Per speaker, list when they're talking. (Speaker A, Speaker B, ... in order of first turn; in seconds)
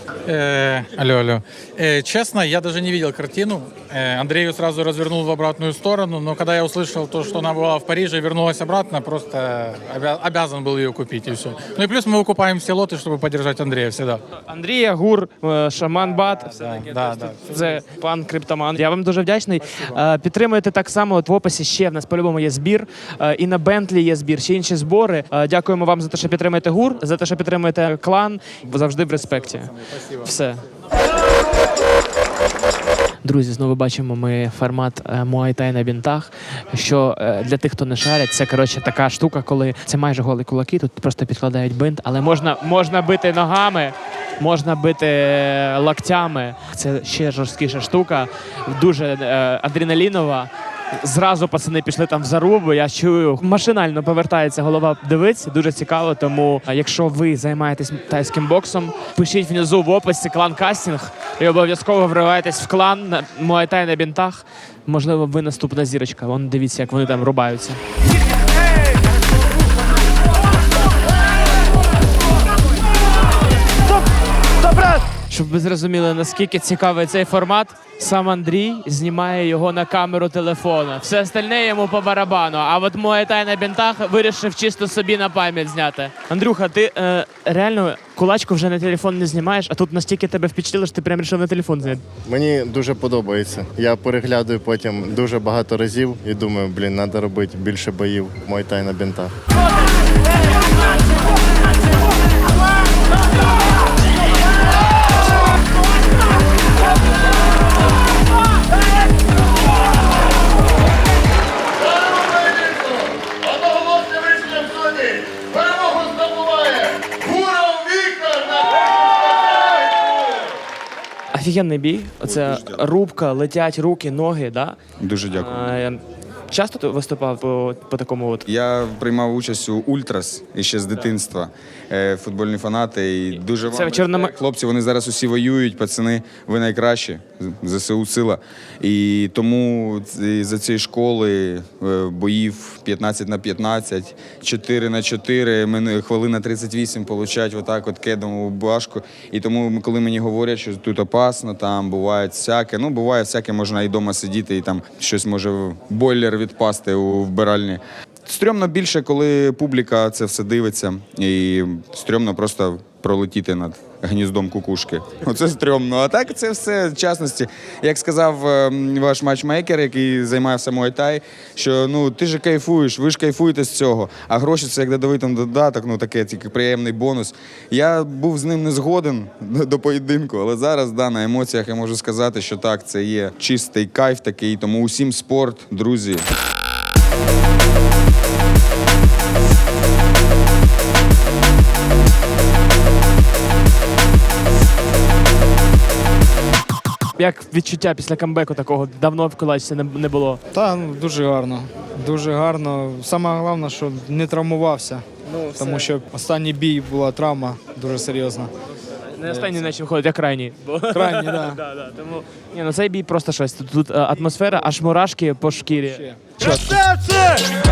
Speaker A: 0.3-14.2, 16.5-17.4
Speaker B: 14.3-30.6, 33.2-67.8, 74.6-92.0, 121.3-124.8, 125.3-128.5, 133.6-134.3, 197.2-200.4, 205.3-205.9, 209.2-216.9
Speaker C: 92.2-99.3, 111.8-118.9
Speaker D: 122.2-122.8, 125.0-125.7, 128.5-186.2
Speaker E: 200.5-208.5, 209.2-209.6, 210.9-211.6, 215.9-217.1